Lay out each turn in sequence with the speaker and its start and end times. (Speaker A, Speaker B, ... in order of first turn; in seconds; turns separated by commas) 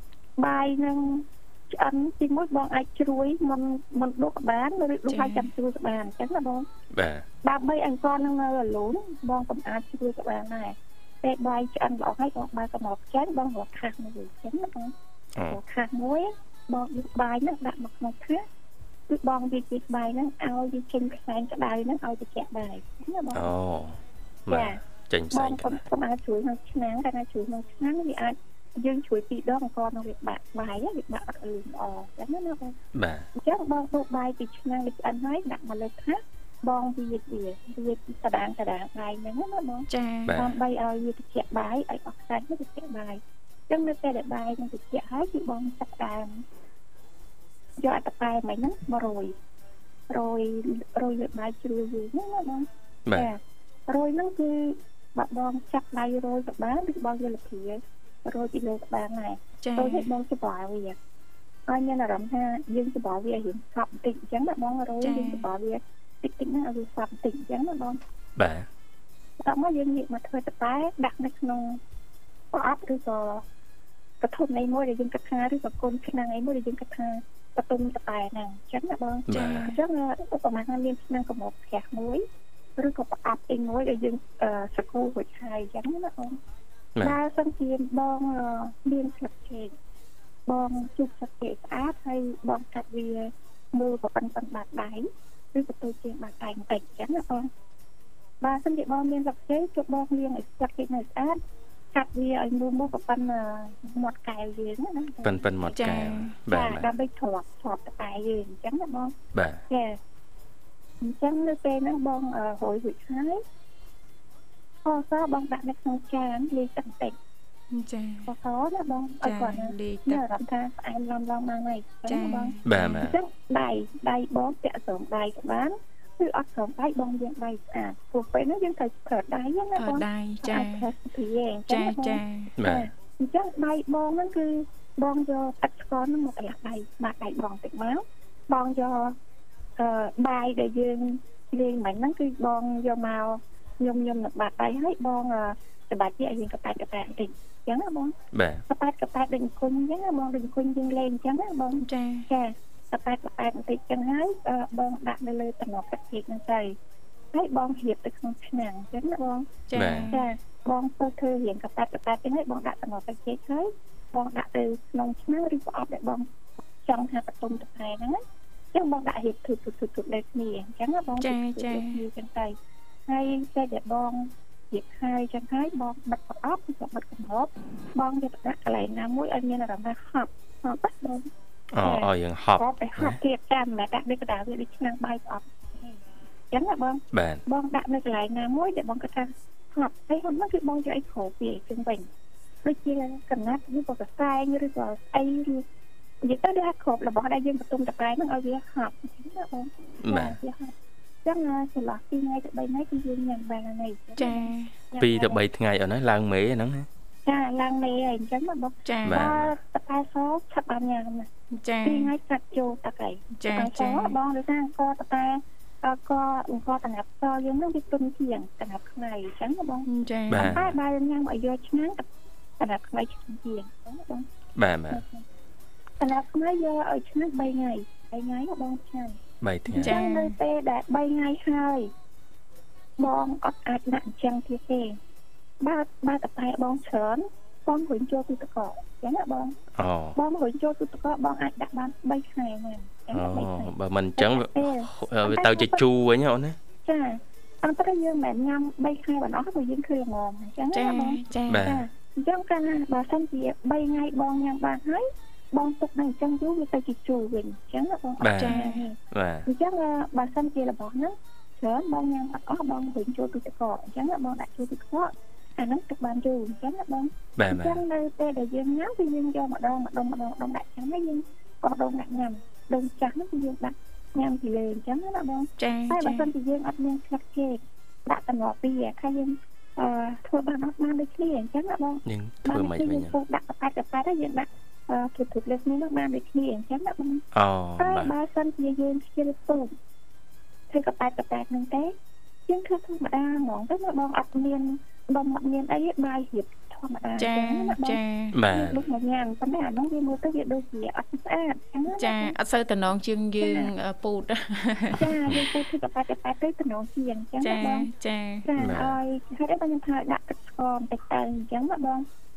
Speaker A: 0.4-6.7, Speaker B: 5.1-5.5, Speaker C: 6.9-7.2, Speaker A: 7.4-18.4, Speaker A: 19.1-23.5, Speaker C: 23.3-25.8, Speaker A: 24.5-24.8, Speaker A: 25.3-32.8, Speaker C: 32.9-33.3, Speaker A: 33.3-46.4, Speaker B: 39.9-40.3, Speaker C: 40.3-40.5, Speaker A: 47.8-49.3, Speaker A: 50.1-61.0, Speaker C: 53.1-53.3, Speaker B: 59.6-60.1, Speaker A: 61.7-68.0, Speaker B: 65.0-65.4, Speaker C: 68.4-68.7, Speaker A: 69.4-71.8, Speaker A: 72.5-73.4, Speaker A: 74.2-82.2, Speaker C: 79.3-79.7, Speaker B: 79.3-79.7, Speaker A: 82.8-86.4, Speaker A: 87.0-89.7, Speaker A: 90.5-97.5, Speaker A: 98.4-101.4, Speaker A: 101.9-109.1, Speaker C: 105.2-106.9, Speaker B: 105.8-106.3, Speaker C: 109.3-109.6, Speaker A: 109.7-110.0, Speaker A: 111.0-113.4, Speaker A: 114.8-117.1, Speaker B: 117.7-118.2, Speaker A: 118.2-139.2, Speaker B: 119.2-120.2, Speaker B: 122.1-123.0, Speaker C: 122.6-123.2, Speaker B: 129.8-130.9, Speaker B: 131.7-132.5, Speaker C: 132.6-132.9, Speaker A: 139.8-148.2, Speaker C: 148.3-148.6, Speaker A: 148.7-156.8, Speaker B: 151.8-152.2, Speaker A: 157.3-159.5, Speaker B: 159.7-160.2, Speaker C: 159.7-160.1, Speaker A: 160.1-166.3, Speaker A: 166.8-168.2, Speaker A: 168.7-172.5, Speaker B: 171.2-172.0, Speaker A: 173.1-181.3, Speaker C: 181.7-183.2, Speaker A: 181.8-186.0, Speaker A: 186.5-192.1, Speaker C: 187.1-187.4, Speaker A: 192.6-195.6, Speaker A: 196.2-200.7, Speaker C: 200.0-200.4, Speaker A: 201.2-205.4, Speaker B: 204.2-204.7, Speaker C: 205.0-206.9, Speaker A: 207.2-211.3, Speaker B: 208.8-209.2, Speaker C: 209.0-209.5, Speaker B: 211.6-212.1, Speaker A: 211.8-222.0, Speaker B: 213.4-214.1, Speaker B: 219.9-220.5, Speaker C: 220.3-220.7, Speaker A: 222.6-224.2, Speaker C: 224.6-225.0, Speaker A: 224.9-225.2, Speaker A: 226.0-229.2, Speaker C: 229.4-230.0, Speaker B: 229.7-230.3, Speaker A: 229.7-231.9, Speaker A: 233.0-235.0, Speaker A: 235.6-239.6, Speaker C: 239.8-240.2, Speaker A: 240.1-245.8, Speaker C: 243.1-246.6, Speaker A: 246.8-287.2, Speaker B: 250.7-251.7, Speaker C: 251.5-251.8, Speaker C: 258.2-258.6, Speaker B: 258.4-258.8, Speaker C: 259.1-259.4, Speaker C: 267.4-267.8, Speaker B: 275.6-276.3, Speaker C: 282.1-283.1, Speaker C: 287.3-288.1, Speaker A: 287.8-289.7, Speaker A: 290.7-291.9, Speaker A: 292.5-302.3, Speaker B: 297.2-298.4, Speaker C: 298.3-298.8, Speaker B: 302.0-305.1, Speaker A: 303.4-303.7, Speaker A: 305.0-307.9, Speaker B: 307.4-308.5, Speaker A: 308.4-312.1, Speaker C: 308.6-309.0